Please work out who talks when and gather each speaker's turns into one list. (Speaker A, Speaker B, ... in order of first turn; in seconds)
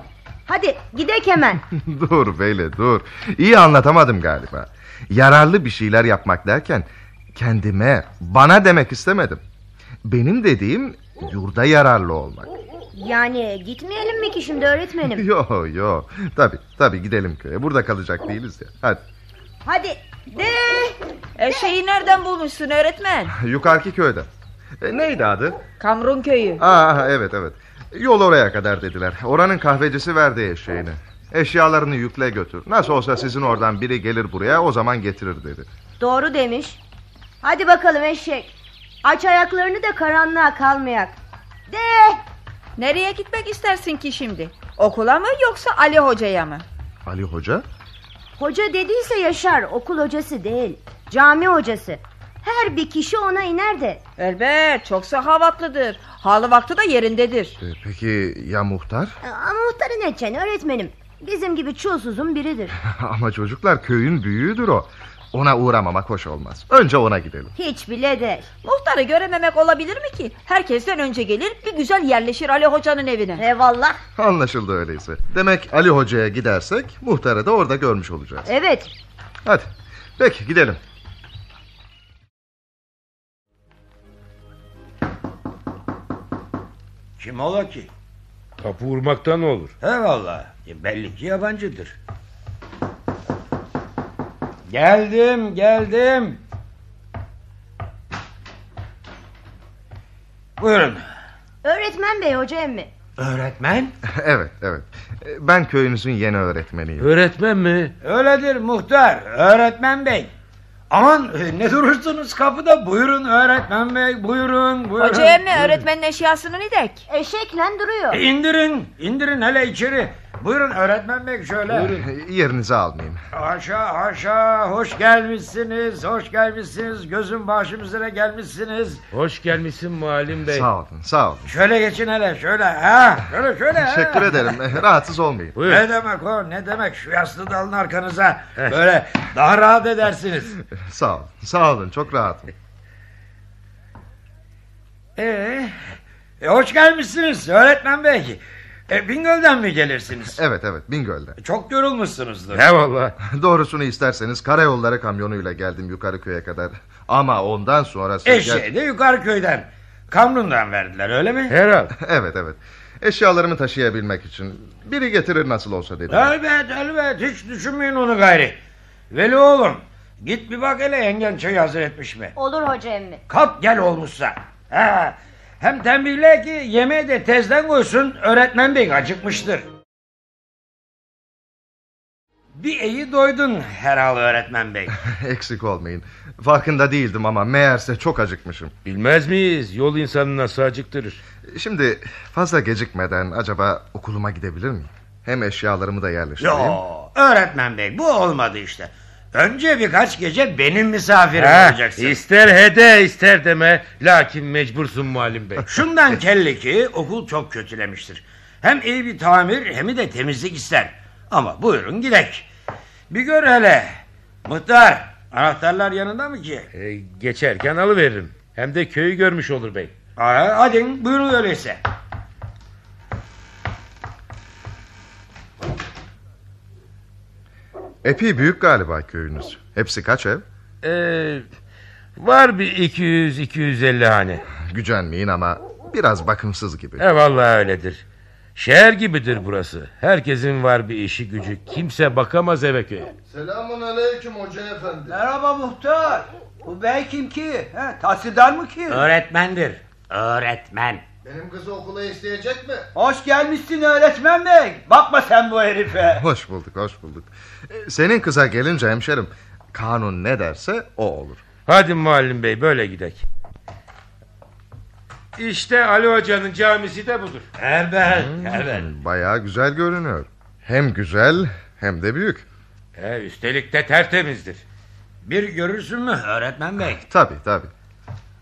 Speaker A: 0.5-1.6, 12.9-15.2, 19.6-21.0, 36.0-36.8, 37.4-38.5, 39.0-41.2, 41.7-42.2, 48.4-54.0, 59.2-62.8, 67.5-68.5, 73.4-74.0, 78.5-78.9, 101.6-102.9, 117.1-118.2, 172.4-173.2
Speaker B: 1.7-9.4, 10.0-12.5, 15.1-19.0, 23.3-24.3, 24.8-25.6, 26.6-35.7, 47.0-47.6, 57.6-59.2, 62.8-67.5, 74.2-78.5, 79.5-80.8, 104.0-107.1, 121.8-123.2, 130.5-131.5, 133.8-135.6, 140.7-142.5, 150.3-151.4, 153.2-158.7, 161.9-166.3, 185.0-188.7, 191.4-196.8, 228.0-230.4, 234.6-237.1, 256.1-261.4, 268.1-272.5, 277.0-277.7
Speaker C: 21.4-23.3, 25.8-26.6, 42.8-46.6, 54.2-57.6, 68.6-73.5, 115.0-117.0
Speaker D: 87.2-87.9, 89.8-92.0, 94.7-96.4, 100.6-101.0, 103.2-103.9, 108.0-110.3, 110.9-115.8, 118.1-122.0, 123.3-129.0, 131.5-134.5, 135.6-140.5, 145.2-150.4, 151.4-152.7, 158.3-161.6, 166.1-168.6, 169.1-172.3, 173.3-179.7, 182.6-184.9, 196.4-202.2, 205.7-212.5, 213.1-216.7, 220.2-221.8, 248.9-251.1, 267.6-268.9, 275.2-277.0
Speaker E: 88.6-89.7, 107.0-108.0, 129.1-130.7, 135.6-135.9, 152.5-153.2, 161.5-161.9, 188.8-191.2, 201.4-205.7, 216.7-219.9, 230.8-231.4, 232.2-234.4, 237.0-238.0, 238.6-243.1, 261.7-263.2, 265.4-267.5, 273.0-274.6
Speaker F: 243.3-245.2, 251.2-252.9
Speaker G: 245.1-249.1, 252.9-256.2